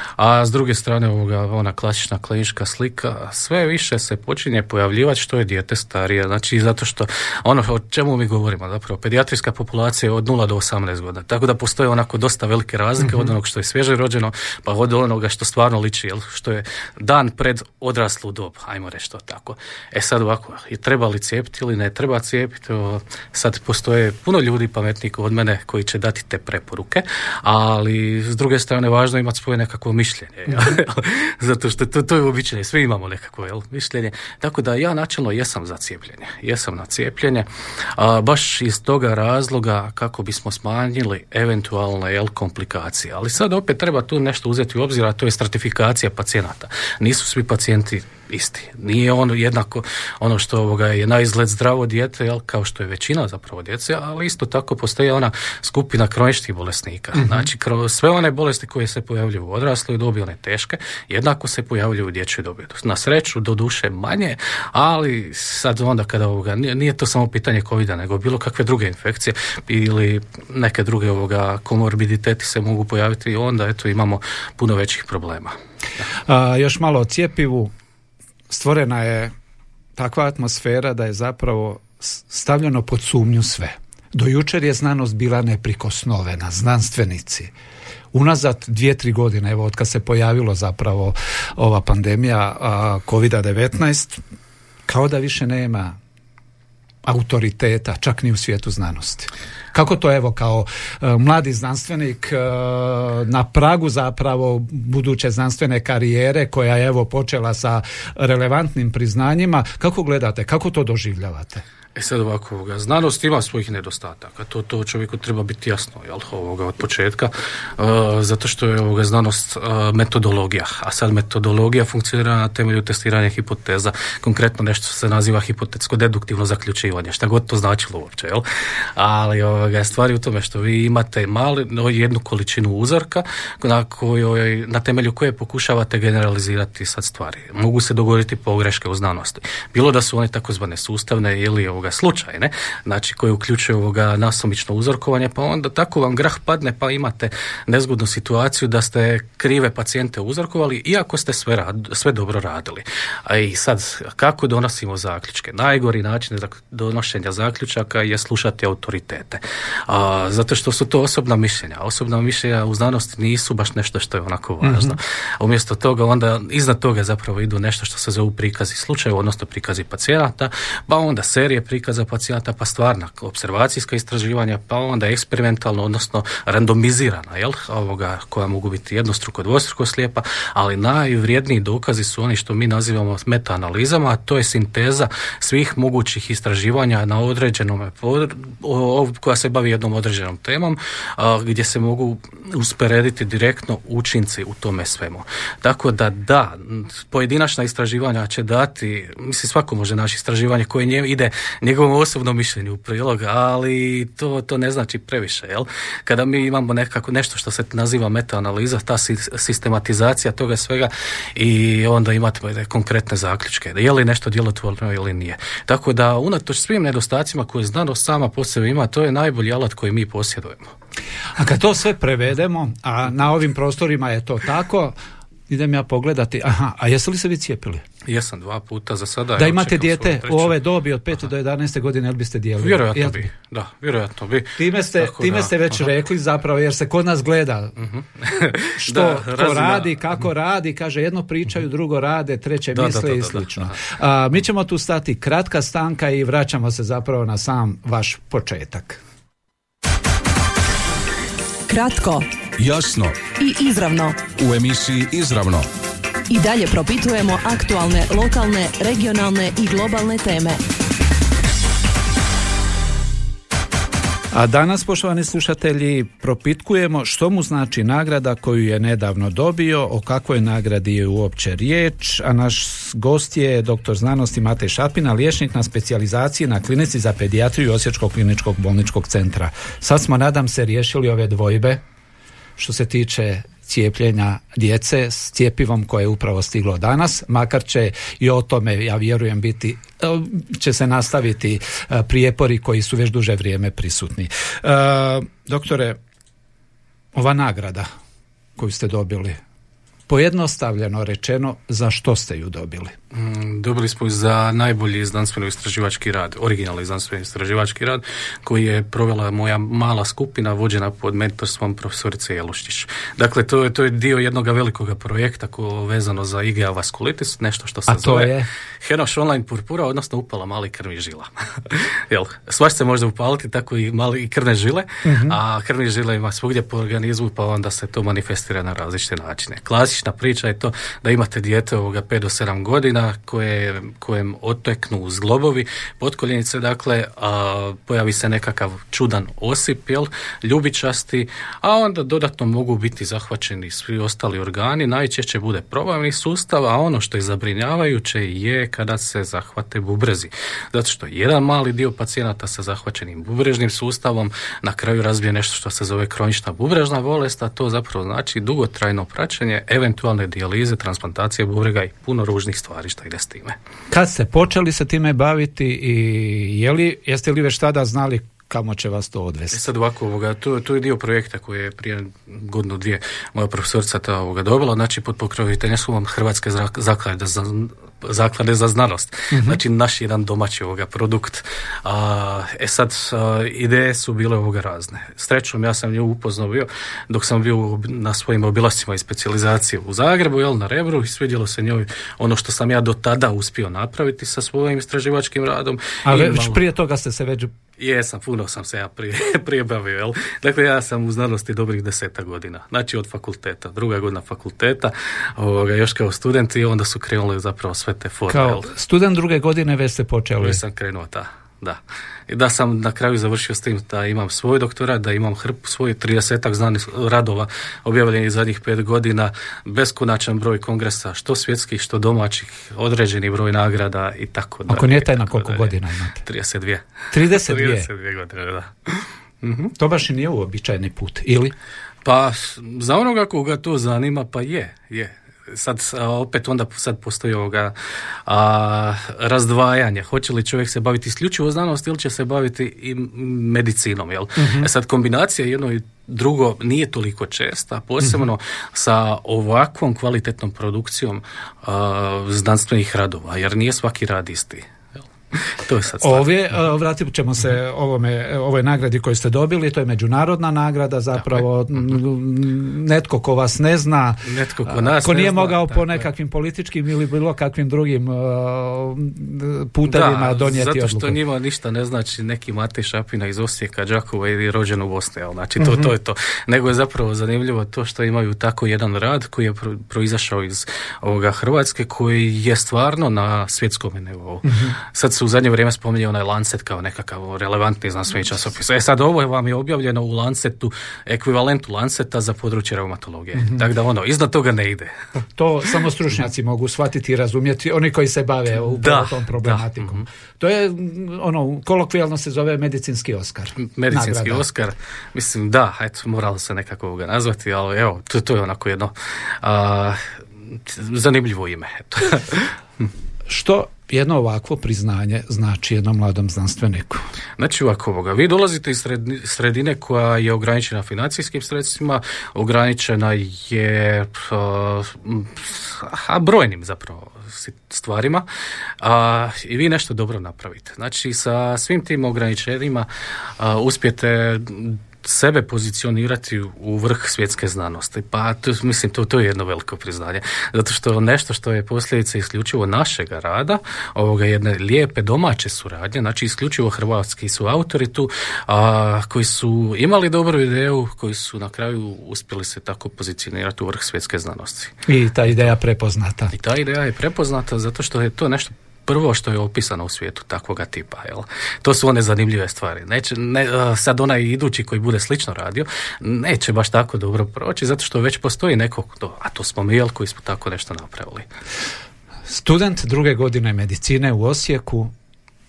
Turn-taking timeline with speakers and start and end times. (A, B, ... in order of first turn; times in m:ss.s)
0:00.2-1:15.5 A
0:13.0-0:13.3 B
0:57.2-0:57.5 B
1:16.2-1:17.7 B
1:18.5-1:19.3 B
1:20.0-1:27.5 B
1:28.1-1:34.2 B
1:34.8-1:36.0 B
1:37.0-1:51.6 B
1:52.0-2:08.4 A
2:09.0-3:40.7 A
2:44.6-2:45.0 B
3:41.4-3:44.9 B
3:45.5-3:47.8 B
3:48.0-3:50.6 A
3:49.4-3:53.3 B
3:52.6-3:55.9 A
3:54.6-3:57.8 B
3:57.8-4:00.1 A
3:58.7-4:09.0 B
4:02.7-4:03.8 A
4:11.7-4:12.3 C
4:12.6-4:13.2 D
4:13.4-4:14.2 C
4:14.3-4:15.7 D
4:16.3-4:20.6 C
4:24.3-4:41.8 B
4:42.6-4:56.0 B
4:57.1-4:57.9 B
4:58.6-4:59.4 B
5:00.1-5:02.9 B
5:03.1-6:03.6 A
5:17.9-5:18.5 B
5:25.0-5:25.4 B
6:03.9-6:09.6 B
6:09.5-6:36.6 A
6:19.3-6:19.6 B
6:36.0-6:37.5 B
6:37.8-6:48.7 A
6:48.3-6:50.6 B
6:50.4-7:09.7 A
7:04.7-7:06.2 B
7:07.1-7:07.9 B
7:09.8-7:11.5 B
7:12.0-7:17.7 A
7:18.2-7:34.7 A
7:24.4-7:24.7 B
7:35.3-7:36.3 A
7:36.0-7:51.2 B
7:44.2-7:46.0 A
7:49.8-8:14.9 A
7:55.6-7:55.9 B
8:04.4-8:04.8 B
8:13.3-8:13.6 B
8:15.4-8:24.4 B
8:18.8-8:20.0 A
8:23.6-8:32.9 A
8:33.3-8:37.0 B
8:37.4-8:48.2 A
8:48.8-8:52.9 A
8:53.4-9:15.5 A
9:14.9-9:16.3 B
9:16.3-9:31.2 A
9:32.3-9:34.9 B